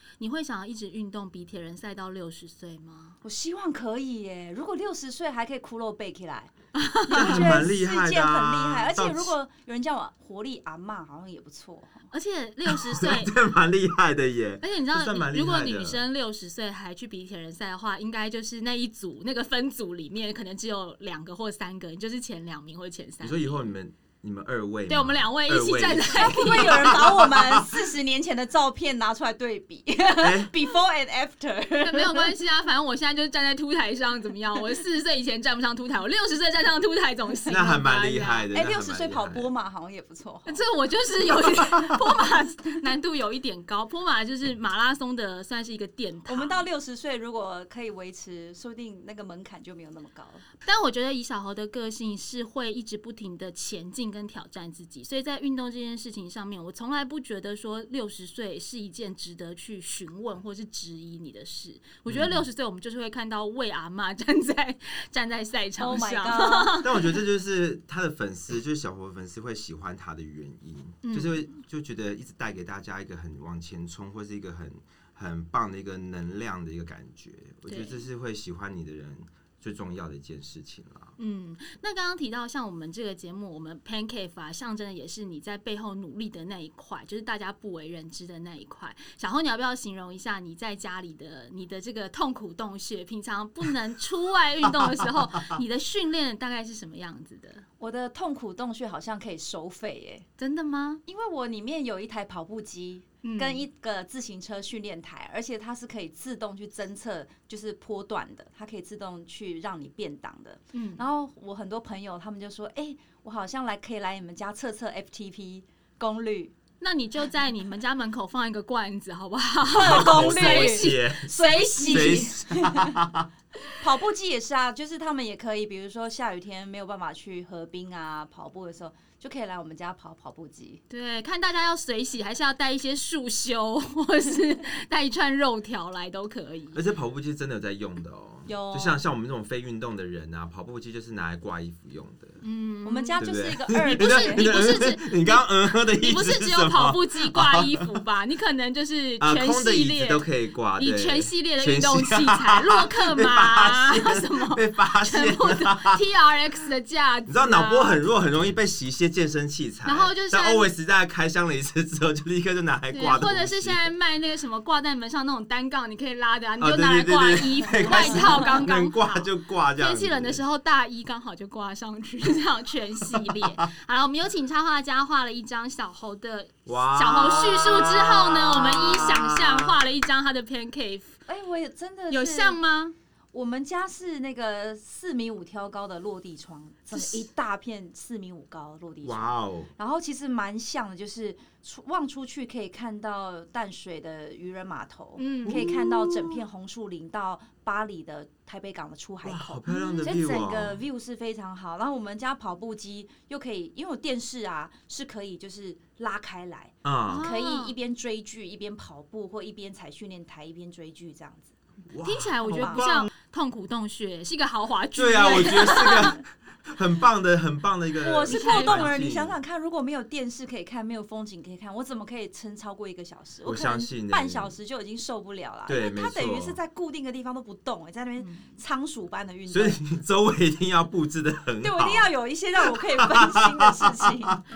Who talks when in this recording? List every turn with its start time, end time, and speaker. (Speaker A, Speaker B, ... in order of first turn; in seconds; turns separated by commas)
Speaker A: 0.2-3.2, Speaker B: 3.2-6.5, Speaker A: 6.8-7.5, Speaker B: 7.0-12.0, Speaker C: 7.1-9.3, Speaker A: 12.1-13.3, Speaker C: 12.7-16.0, Speaker A: 14.6-23.6, Speaker C: 23.2-27.8, Speaker A: 24.9-27.0, Speaker B: 26.1-32.3, Speaker C: 30.2-30.5, Speaker A: 31.8-38.5, Speaker C: 37.5-39.5, Speaker B: 38.5-40.6, Speaker A: 40.5-46.7, Speaker B: 46.3-50.5, Speaker A: 50.6-67.2, Speaker C: 62.1-62.5, Speaker B: 65.8-66.8, Speaker C: 66.8-81.2, Speaker A: 71.0-71.4, Speaker A: 77.7-78.0, Speaker A: 81.2-97.7, Speaker B: 97.8-100.3, Speaker A: 100.4-101.0, Speaker B: 101.1-116.5, Speaker A: 103.2-103.6, Speaker A: 110.7-111.0, Speaker A: 116.8-122.3, Speaker C: 119.7-121.3, Speaker B: 119.7-123.0, Speaker C: 121.8-123.3, Speaker B: 123.8-130.8, Speaker A: 130.9-136.8, Speaker C: 136.7-142.4, Speaker B: 138.5-139.0, Speaker A: 142.4-158.0, Speaker B: 142.8-144.6, Speaker C: 143.2-147.9, Speaker C: 149.2-156.0, Speaker C: 157.3-163.9, Speaker A: 159.8-160.7, Speaker A: 162.9-181.2, Speaker C: 166.6-170.4, Speaker B: 167.9-168.2, Speaker C: 173.2-173.6, Speaker C: 176.7-179.8, Speaker B: 181.3-182.6, Speaker A: 182.1-183.0, Speaker B: 183.3-211.6, Speaker A: 186.9-187.3, Speaker C: 189.0-189.7, Speaker A: 195.2-196.3, Speaker C: 195.5-195.8, Speaker C: 199.2-200.8, Speaker A: 199.7-200.2, Speaker C: 206.8-207.3, Speaker A: 207.1-207.7, Speaker C: 211.9-213.1, Speaker A: 212.0-216.2, Speaker B: 212.4-212.8, Speaker C: 215.0-219.3, Speaker B: 215.7-216.0, Speaker B: 218.0-229.8, Speaker A: 218.3-219.0, Speaker C: 223.5-224.6, Speaker C: 225.7-226.6, Speaker A: 228.2-228.6, Speaker C: 229.5-234.4, Speaker B: 231.6-234.4